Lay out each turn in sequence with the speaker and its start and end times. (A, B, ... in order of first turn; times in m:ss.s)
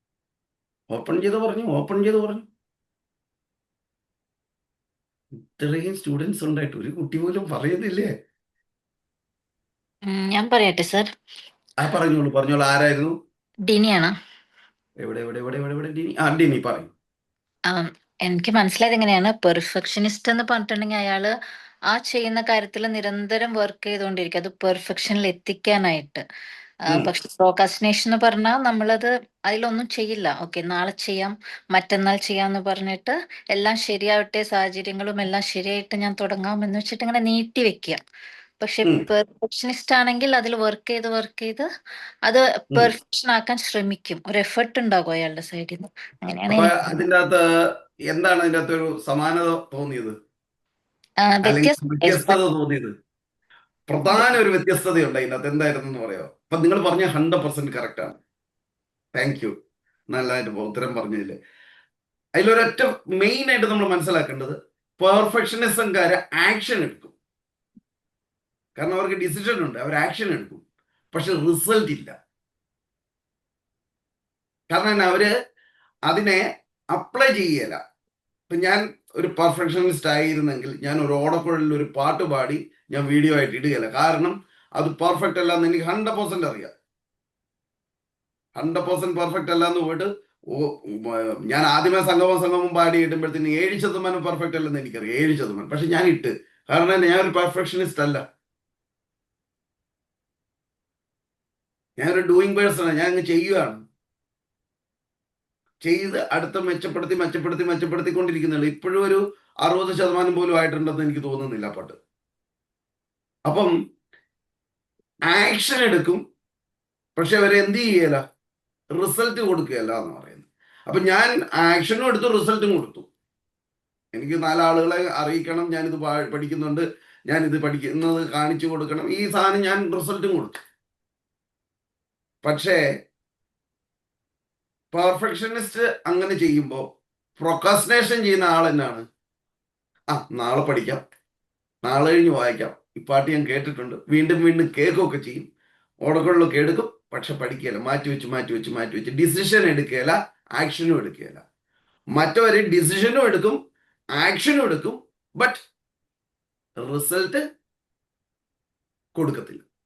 0:00.9-0:02.4 A
0:05.5-0:08.1 A
0:10.1-0:11.1 B
0:11.8-0:13.1 A
0:13.7-0:14.1 B
0:15.0-0:16.9 A
0:17.7-0:21.3 B
0:21.9-0:26.2 B
0:26.9-0:38.0 B
0:38.6-0:41.6 B
0:42.3-0:46.8 B
0:46.5-0:47.4 A
0:48.1-0:50.1 A
0:51.2-0:52.4 B
0:51.4-0:52.9 A
0:53.9-0:58.2 A
0:54.1-0:54.4 B
0:59.1-0:59.5 A
1:00.1-1:01.4 A
1:02.4-1:07.1 A
1:08.8-1:12.1 A
1:14.7-1:15.3 A
1:16.1-1:16.4 A
1:16.9-1:17.8 A
1:18.5-1:26.7 A
1:28.6-1:38.2 A
1:42.0-1:43.8 A
1:45.8-1:52.0 A
1:53.4-1:53.7 A
1:55.3-1:56.2 A
1:57.2-1:58.2 A
1:59.0-2:03.1 A
2:04.1-2:10.6 A
2:12.4-2:12.8 A
2:14.9-2:16.8 A
2:17.4-2:19.0 A
2:20.1-2:21.0 A
2:21.8-2:25.4 A
2:26.0-2:31.4 A
2:32.2-2:33.6 A
2:34.2-2:35.6 A
2:36.8-2:37.4 A
2:39.2-2:39.6 A